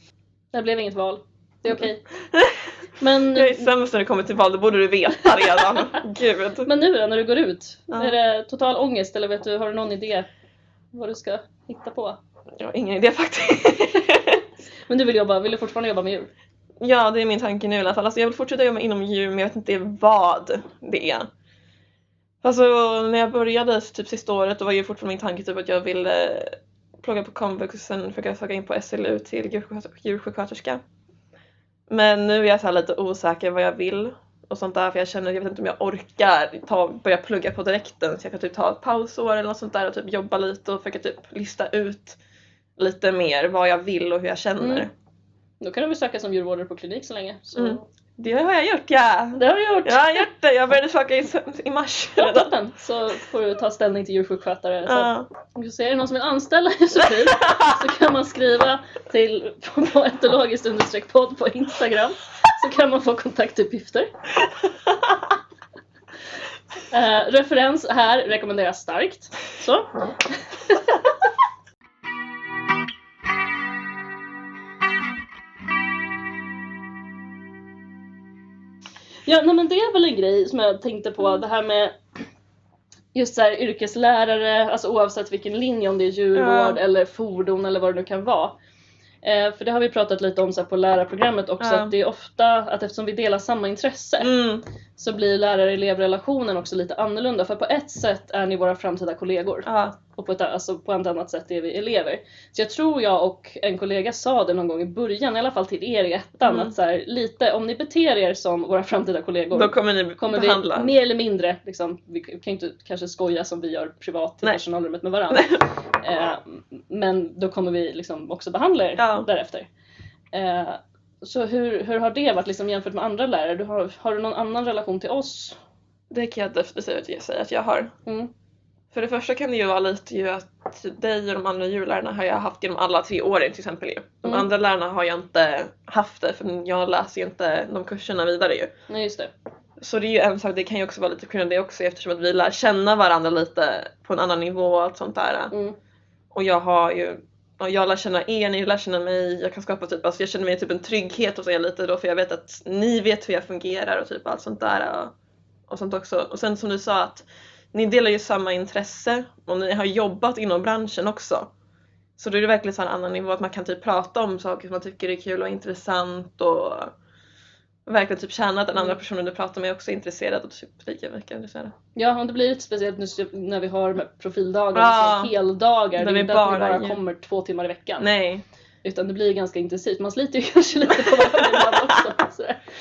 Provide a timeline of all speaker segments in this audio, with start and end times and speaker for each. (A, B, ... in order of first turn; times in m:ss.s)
0:00.5-0:02.0 A
0:02.3-0:02.7 B
0:03.0-0:03.7 A
0:03.3-0:06.7 B
0:05.6-0:06.0 A
0:06.6-0:10.3 A
0:07.9-0:08.2 B
0:10.9-0:12.2 A
0:12.6-0:14.4 B
0:14.9-0:16.3 A
0:16.8-0:21.3 B
0:22.4-0:30.8 B
0:31.9-0:42.2 B
0:42.8-0:44.9 B
0:44.6-0:44.9 A
0:45.6-0:47.8 A
0:47.6-0:52.5 B
0:49.4-0:50.3 A
0:52.2-1:04.1 A
0:54.9-0:55.3 B
0:56.9-0:57.8 B
1:06.9-1:11.1 A
1:19.3-1:22.0 A
1:23.1-1:28.6 A
1:26.4-1:26.8 B
1:29.2-1:34.3 A
1:31.6-1:31.9 B
1:34.2-1:34.6 B
1:35.0-1:59.7 A
1:39.6-1:40.0 B
1:46.4-1:46.7 B
1:49.5-1:50.9 B
1:55.3-1:55.6 B
1:59.0-1:59.3 B
2:00.3-2:05.6 A
2:06.1-2:07.9 B
2:08.9-2:18.7 B
2:18.9-2:19.3 A
2:19.8-2:25.5 B
2:25.5-2:25.8 A
2:26.3-2:35.1 B
2:35.7-2:41.5 B
2:42.2-2:46.9 B
2:47.9-2:51.7 B
2:52.0-2:58.1 A
2:54.7-2:55.3 B
2:56.0-2:57.0 B
2:58.0-2:58.4 B
2:58.8-3:02.6 A
3:01.1-3:01.8 B